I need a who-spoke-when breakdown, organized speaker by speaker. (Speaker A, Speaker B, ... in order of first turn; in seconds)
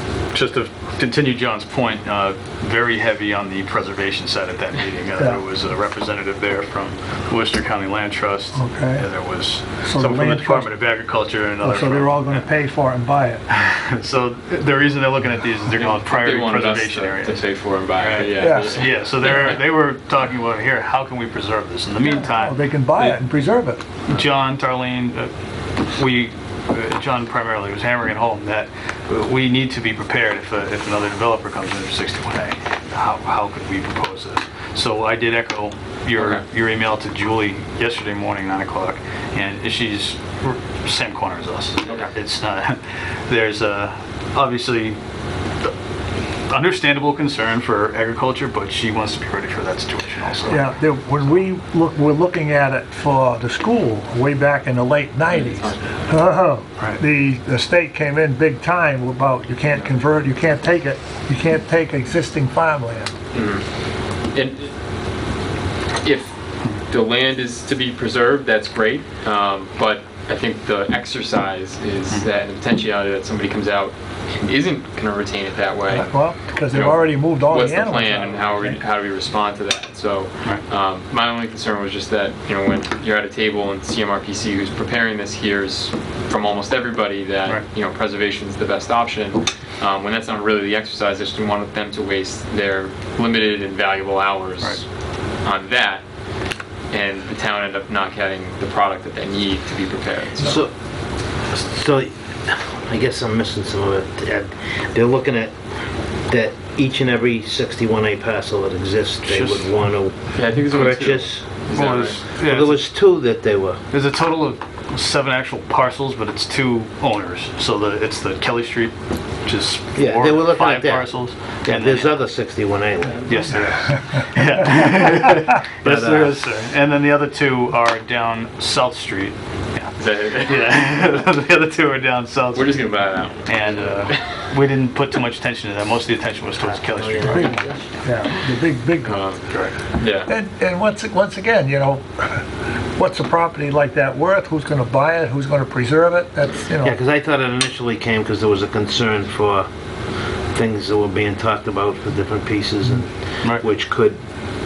Speaker A: 0.3-12.4, 13.5-23.2, 24.0-25.3, 25.8-45.0, 46.5-50.7, 56.8-57.0, 109.2-109.7, 111.7-113.0, 113.9-122.2, 123.3-132.9, 133.4-137.5, 139.5-139.8
Speaker B: 5.2-5.4, 8.5-9.1, 9.8-10.7, 11.6-13.4, 18.3-18.8, 22.2-23.9, 50.5-63.1, 75.9-78.8, 137.2-139.3, 140.2-142.4, 142.9-147.0
Speaker C: 15.7-19.6, 36.2-36.4, 41.9-42.1, 55.3-56.1, 59.7-60.0, 63.3-63.6, 64.3-64.7, 66.0-66.3, 66.8-94.8, 95.4-96.0, 96.9-100.6, 110.3-112.2, 130.0-130.7, 132.5-134.4, 139.0-139.4, 139.9-140.3
Speaker D: 100.4-100.7, 101.5-105.6, 106.2-111.5, 112.4-113.8, 119.9-123.5, 125.8-126.4, 136.6-138.0, 146.8-149.7, 150.5-154.2